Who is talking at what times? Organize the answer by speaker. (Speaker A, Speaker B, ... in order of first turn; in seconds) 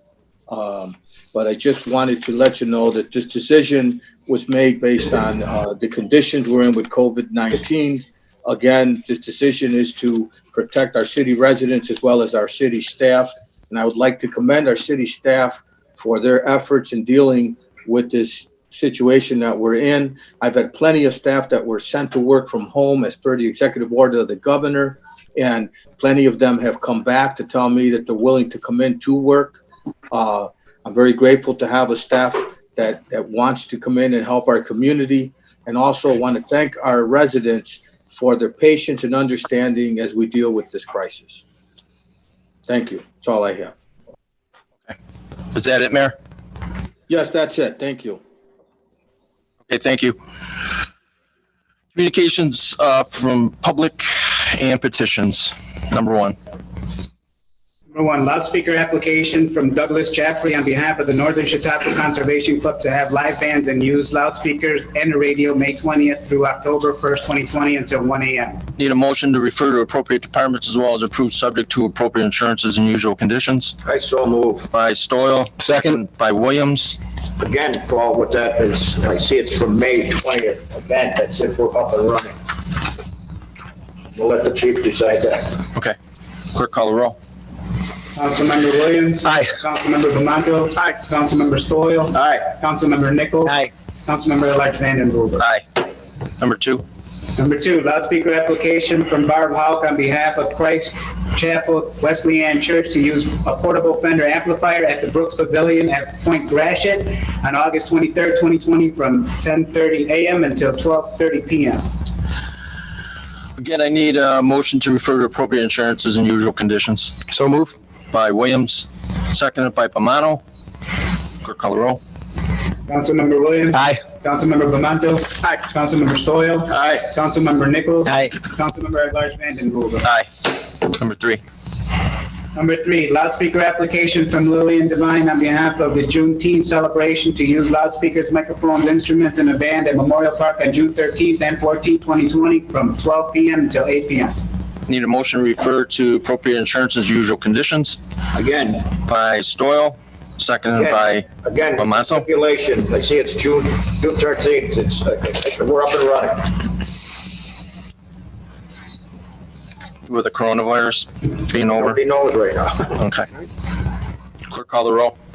Speaker A: 0.5-41.4, 42.7-43.7, 47.1-48.2
Speaker B: 45.5-46.1, 49.7-50.2, 51.9-56.4, 68.8-73.8, 74.7-77.0, 86.5-87.2, 95.4-95.8, 96.4-96.8, 113.6-117.2, 118.1-120.4, 121.4-122.0, 130.0-131.4, 144.9-148.0, 149.0-152.2, 160.1-162.0, 163.0-163.3, 164.5-165.1
Speaker C: 57.9-68.6, 88.2-95.4, 97.3-111.9, 122.9-130.1, 132.5-144.3
Speaker D: 73.8-74.7, 77.4-82.8, 84.1-85.6, 148.3-148.9, 150.7-156.8, 161.5-163.0